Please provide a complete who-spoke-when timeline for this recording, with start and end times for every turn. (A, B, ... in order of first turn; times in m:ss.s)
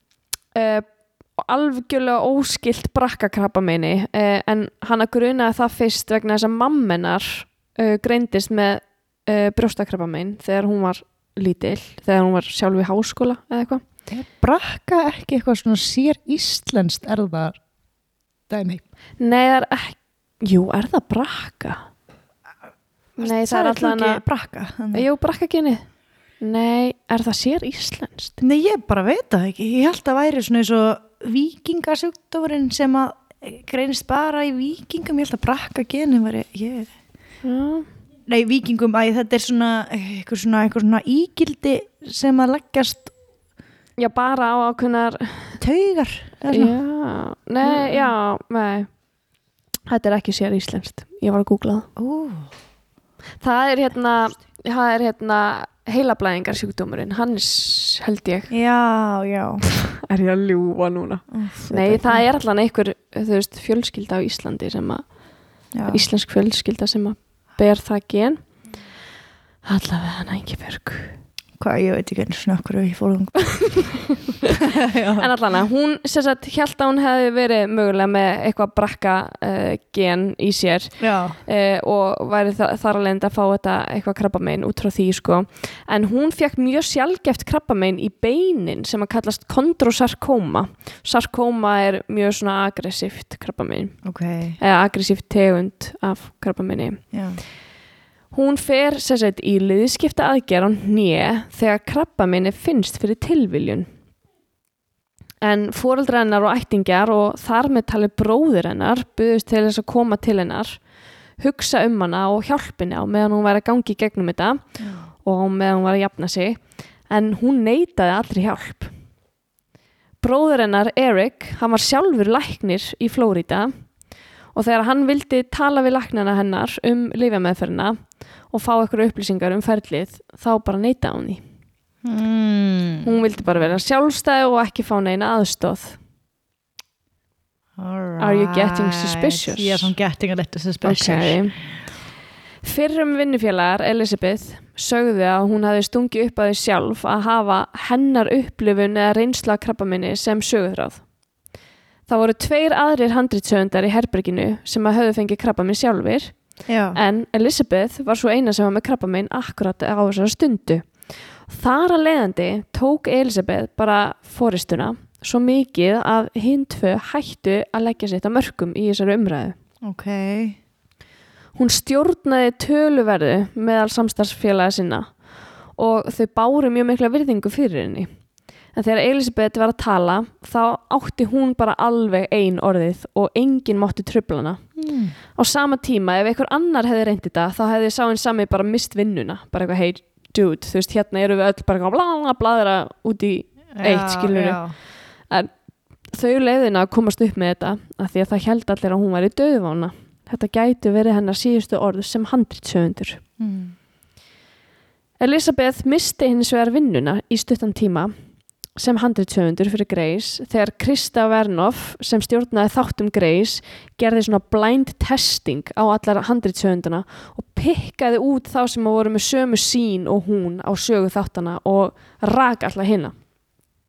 0:00.5-0:13.8 A
0:14.1-0:17.6 B
0:18.5-0:18.8 B
0:19.2-0:21.8 A
0:23.2-0:25.1 B
0:23.2-0:24.2 A
0:24.9-0:25.9 A
0:26.4-0:28.4 A
0:28.4-0:36.9 B
0:37.4-0:37.9 A
0:38.3-0:43.1 B
0:44.0-0:45.6 A
0:45.6-0:46.8 B
0:46.5-0:49.0 A
0:47.6-0:48.2 B
0:49.9-0:51.9 A
0:52.0-0:52.5 B
0:53.4-0:58.5 A
0:58.5-0:59.6 B
1:00.0-1:05.2 A
1:01.3-1:02.2 B
1:05.7-1:06.0 B
1:05.9-1:08.4 A
1:09.6-1:11.2 A
1:11.6-1:13.5 B
1:13.5-1:13.9 A
1:14.8-1:15.3 B
1:15.2-1:34.0 A
1:21.0-1:21.4 B
1:34.0-1:34.6 B
1:34.6-1:37.1 A
1:37.1-1:37.4 B
1:38.3-1:43.9 A
1:45.4-1:50.9 A
1:51.4-1:58.9 A
1:54.8-1:55.1 B
2:00.2-2:03.7 A
2:04.5-2:11.4 A
2:12.0-2:13.1 B
2:13.0-2:16.0 A
2:17.8-2:21.8 B
2:18.2-2:19.9 A
2:20.8-2:21.8 A
2:22.6-2:31.0 A
2:32.1-2:49.6 A
2:36.7-2:37.0 B
2:49.8-2:50.6 B
2:51.6-2:58.1 A
2:58.7-3:15.5 A
3:04.8-3:05.2 B
3:13.8-3:14.8 B
3:16.1-3:23.2 A
3:23.4-3:23.8 B
3:25.2-3:28.1 A
3:28.7-3:43.1 A